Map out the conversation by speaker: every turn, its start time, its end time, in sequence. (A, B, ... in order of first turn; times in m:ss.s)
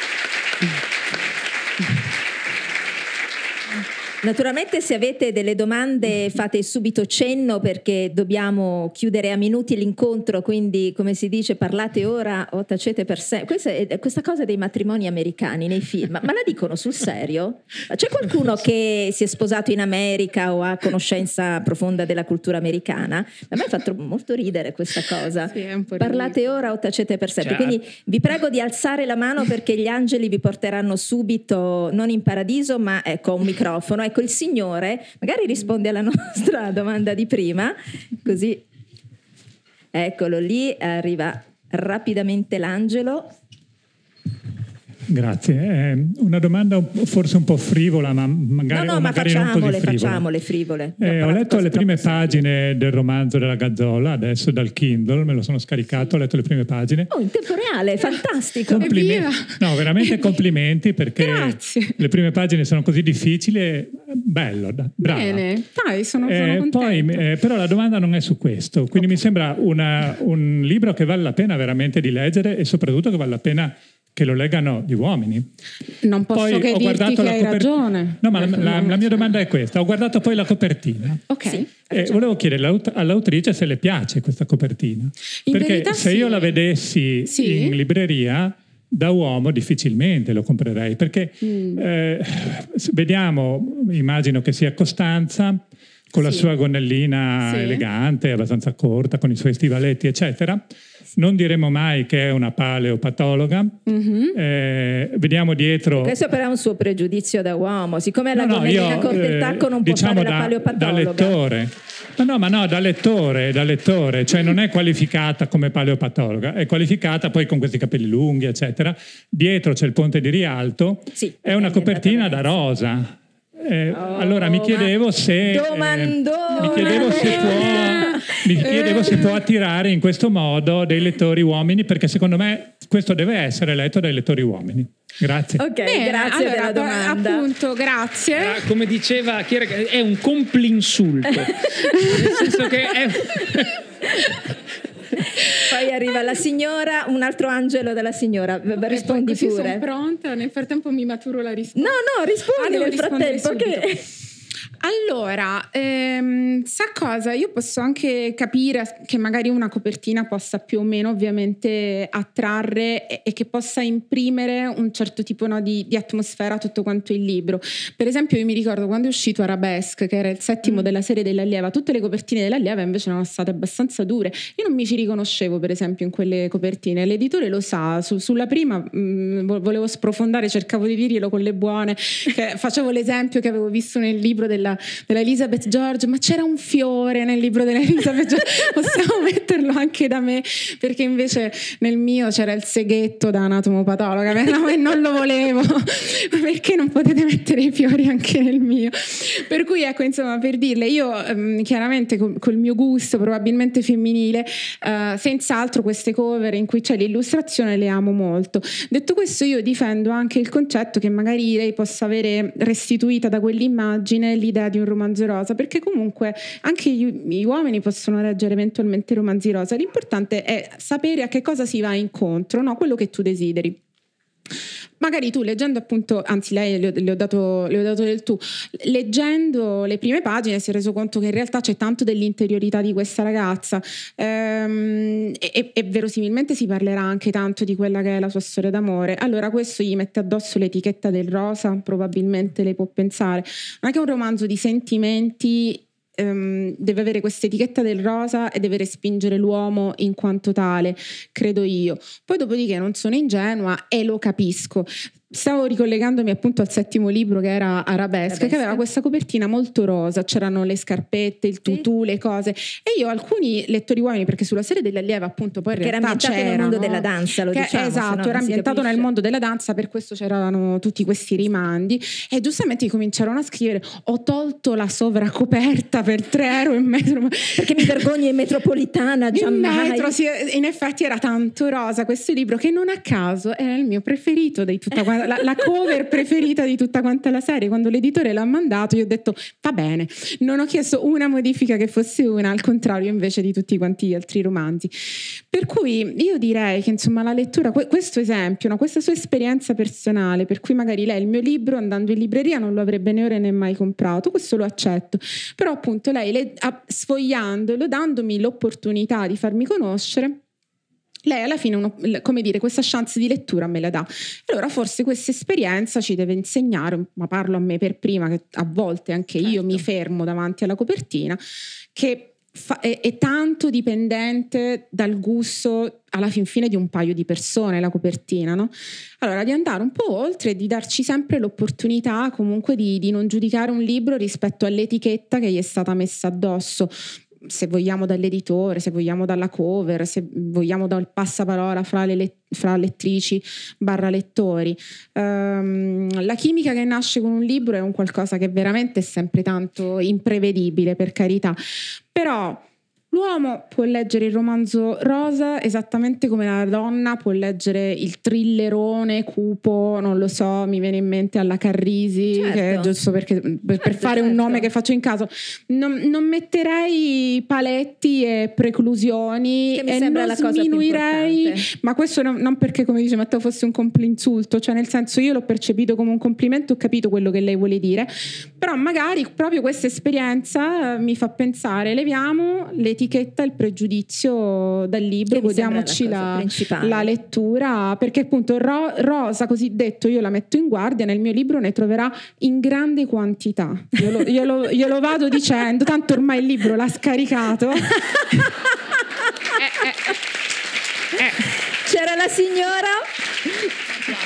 0:04.2-0:38.6 A
0:25.5-0:26.4 B
0:27.4-0:27.8 C
0:39.9-0:43.3 A
0:45.1-0:50.3 D
0:48.7-0:52.4 A
0:51.0-0:57.1 D
0:57.1-0:58.9 A
0:58.7-1:05.4 D
0:58.8-1:00.4 B
1:01.2-1:02.0 B
1:05.0-1:07.2 B
1:06.2-1:15.4 D
1:16.0-1:19.1 B
1:16.3-1:40.6 D
1:21.3-1:22.2 B
1:25.5-1:26.6 B
1:27.3-1:27.8 B
1:31.4-1:31.8 B
1:36.2-1:36.5 B
1:37.4-1:37.8 B
1:41.1-1:43.8 D
1:43.8-1:44.4 B
1:44.3-1:46.2 D
1:45.9-1:51.4 A
1:48.3-2:15.6 D
2:01.1-2:02.5 A
2:03.9-2:08.2 A
2:06.6-2:09.3 B
2:15.6-2:17.4 A
2:15.8-2:18.6 B
2:18.4-2:23.8 C
2:21.9-2:22.4 B
2:24.1-2:24.4 A
2:25.4-2:29.8 A
2:28.8-2:32.0 B
2:31.8-2:34.0 A
2:32.5-2:34.0 B
2:34.8-3:43.8 B
3:45.0-4:38.0 B
4:18.3-4:18.8 A
4:25.8-4:29.1 A
4:37.5-4:40.1 A
4:39.3-5:10.4 B
5:11.2-5:21.4 B
5:19.4-5:19.8 A
5:21.9-5:51.6 B
5:52.1-6:38.0 B
6:02.3-6:02.9 A
6:03.8-6:04.7 A
6:09.7-6:11.7 A
6:25.3-6:27.1 A
6:39.6-6:40.0 B
6:41.7-6:43.7 A